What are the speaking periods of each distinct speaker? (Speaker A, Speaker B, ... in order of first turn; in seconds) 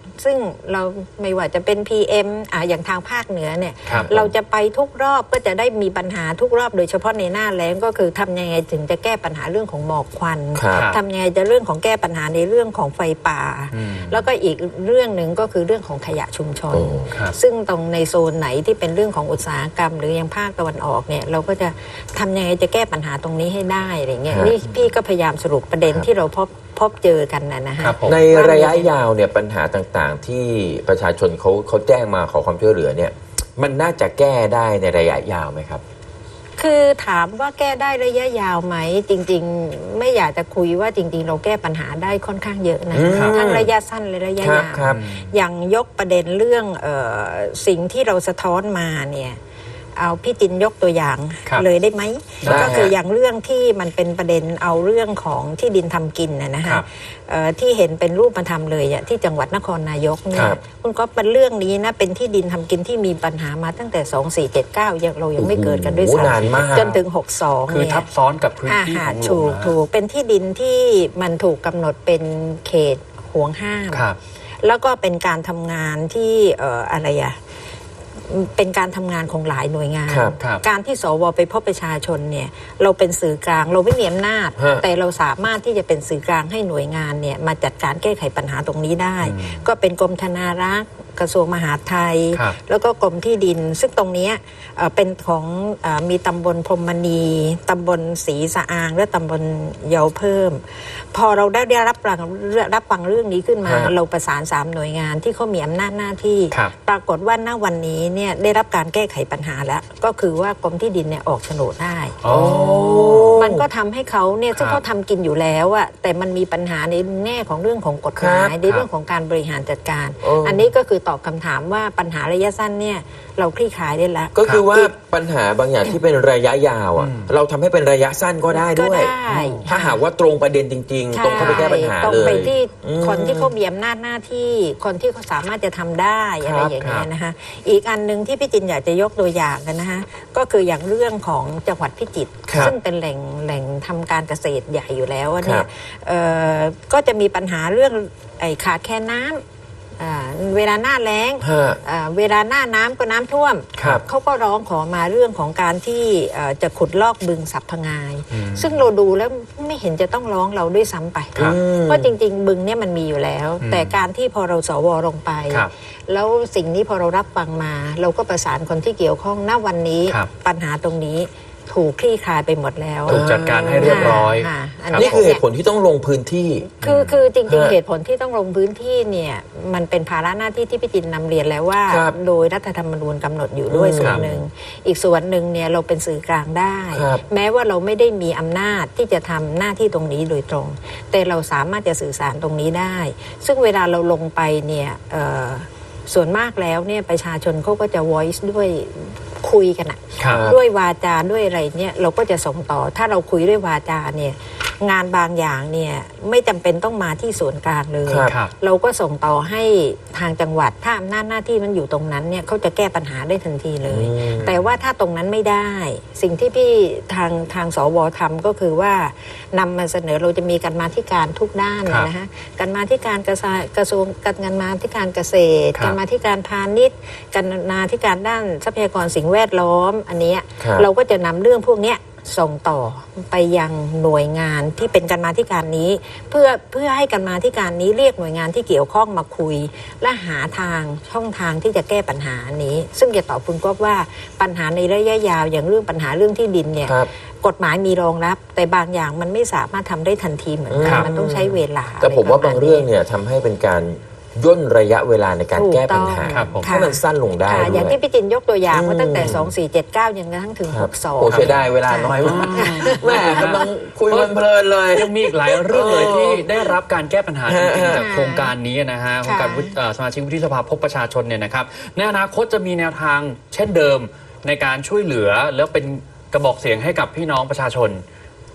Speaker A: 0.2-28.9, 36.6-49.4, 50.0-68.0, 68.6-74.1, 74.6-77.3, 78.3-112.2, 113.3-124.9, 128.5-130.0, 131.1-149.4, 150.0-175.4, 176.8-252.9, 255.5-263.6, 267.9-268.5, 269.2-269.8
Speaker B: 3.9-4.3, 10.5-10.9, 16.7-17.1, 24.3-24.6, 28.0-35.8, 42.9-43.7, 44.4-45.0, 52.4-52.9, 65.4-66.9, 80.1-80.4, 84.6-84.8, 103.6-103.9, 112.2-113.7, 118.2-118.6, 120.2-120.7, 124.3-133.5, 136.4-136.7, 142.5-142.7, 145.4-145.7, 151.4-151.8, 161.4-162.1, 173.1-174.2, 174.9-176.8, 177.5-177.8, 181.9-182.1, 183.7-184.4, 186.9-187.2, 200.2-200.6, 208.1-208.4, 213.9-214.6, 230.6-230.9, 250.7-258.0, 258.7-259.5, 260.7-266.7, 267.5-268.1
Speaker C: 10.7-10.9, 13.7-14.2, 27.8-28.2, 43.1-43.4, 44.8-45.3, 52.4-52.9, 66.2-67.0, 67.7-69.7, 73.9-74.2, 89.2-89.6, 112.2-113.4, 114.5-114.8, 127.0-127.3, 129.3-129.7, 131.3-131.7, 136.8-137.1, 153.8-154.0, 158.3-158.8, 163.6-163.9, 173.1-175.1, 176.8-177.2, 200.2-200.4, 208.3-208.5, 256.3-256.7, 261.3-264.4, 264.9-278.0